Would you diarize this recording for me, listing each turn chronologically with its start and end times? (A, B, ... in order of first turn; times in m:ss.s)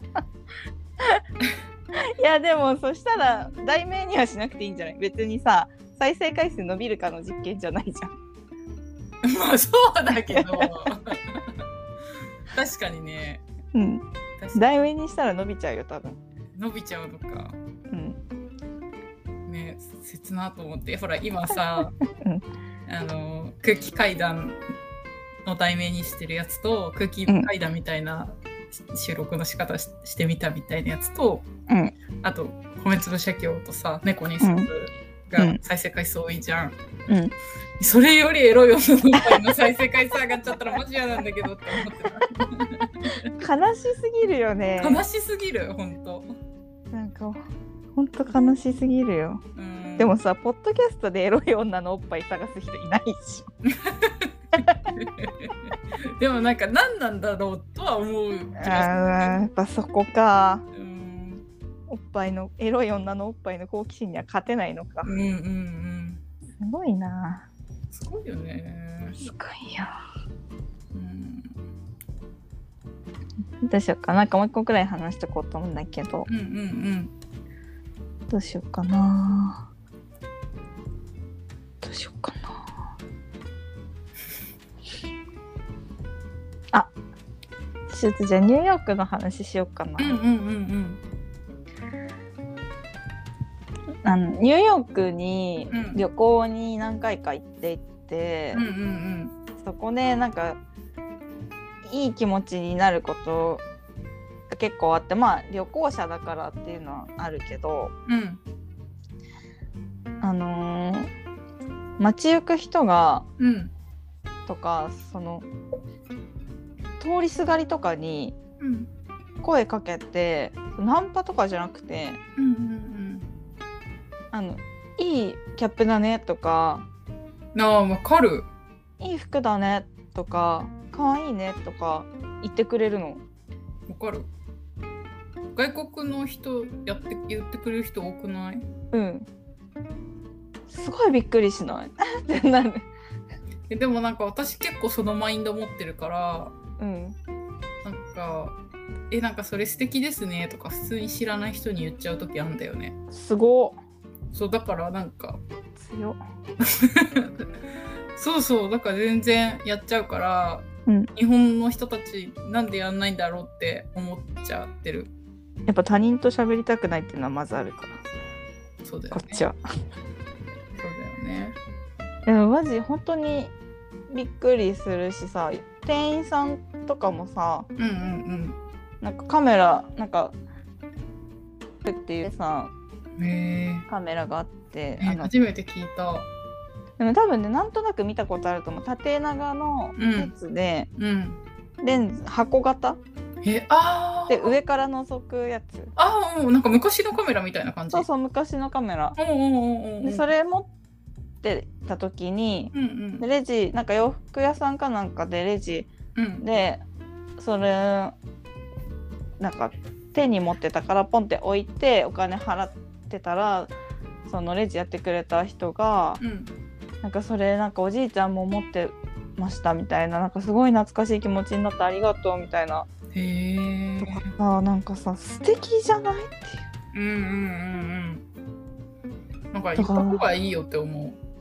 0:02.2-0:08.1 A
0:09.2-0:11.5 B
0:10.3-0:10.6 A
0:12.5-0:13.4 B
0:13.7-0:14.0 A
0:14.4-0:14.7 B
0:14.5-0:16.2 A
0:16.5-0:17.6 B
0:17.9-0:18.2 A
0:19.4-0:21.9 B
0:22.2-0:22.4 A
0:22.9-0:24.6 B
0:25.4-0:31.5 B
0:31.7-0:31.9 A
0:32.2-0:36.8 B
0:34.4-0:34.7 A
0:37.1-0:37.3 A
0:37.8-0:43.2 B
0:43.4-0:45.0 A
0:44.8-0:46.3 B
0:46.9-0:47.4 A
0:47.9-0:49.4 A
0:49.6-0:50.1 B
0:50.0-0:53.5 A
0:53.8-0:59.4 B
0:58.6-1:00.6 A
1:00.7-1:01.4 B
1:01.9-1:05.1 A
1:05.0-1:06.2 B
1:06.6-1:07.5 A
1:07.9-1:09.3 B
1:09.2-1:10.0 A
1:10.9-1:11.5 B
1:13.6-1:16.3 A
1:16.3-1:17.1 B
1:18.3-1:19.7 A
1:21.8-1:22.6 A
1:27.9-1:30.2 A
1:30.0-1:31.0 B
1:34.0-1:38.6 A
1:35.7-1:36.0 B
1:38.5-1:39.3 B
1:39.6-1:40.6 A
1:41.8-1:43.6 A
1:44.5-1:47.9 A
1:48.0-1:48.4 B
1:50.2-1:51.1 A
1:52.0-1:53.2 A
1:53.4-1:53.7 B
1:54.5-1:55.4 A
1:57.0-1:58.4 A
1:58.6-1:58.9 B
1:59.4-2:02.2 A
2:02.4-2:03.3 B
2:04.3-2:06.8 A
2:07.5-2:08.5 B
2:09.0-2:13.2 A
2:13.9-2:14.3 B
2:15.5-2:18.6 B
2:18.9-2:19.3 A
2:20.7-2:22.9 A
2:23.7-2:26.5 B
2:26.8-2:27.2 A
2:27.8-2:28.6 B
2:29.1-2:32.9 B
2:33.1-2:33.8 A
2:34.3-2:35.4 B
2:35.8-2:36.2 A
2:36.6-2:37.4 B
2:38.2-2:45.1 B
2:45.7-2:48.0 A
2:48.8-2:49.4 B
2:49.1-2:49.6 A
2:50.8-2:51.6 B
2:52.2-2:53.5 A
2:54.1-2:57.7 A
2:57.8-2:58.6 B
2:59.0-3:00.3 A
3:01.8-3:02.7 A
3:03.2-3:03.9 B
3:03.9-3:05.3 A
3:05.0-3:06.3 B
3:07.0-3:10.9 A
3:10.0-3:10.3 B
3:11.0-3:11.4 B
3:11.8-3:13.0 A
3:13.4-3:14.5 B
3:14.3-3:15.9 A
3:16.0-3:18.1 B
3:17.9-3:19.2 A
3:19.2-3:20.2 B
3:20.0-3:20.7 A
3:21.4-3:26.8 A
3:22.7-3:23.2 B
3:26.1-3:26.4 B
3:27.4-3:28.1 A
3:29.4-3:33.7 A
3:34.2-3:36.2 A
3:36.2-3:36.5 B
3:37.0-3:42.9 A
3:43.1-3:44.3 B
3:44.0-3:46.6 A
3:46.9-3:48.2 B
3:49.5-3:51.2 B
3:49.8-3:50.3 A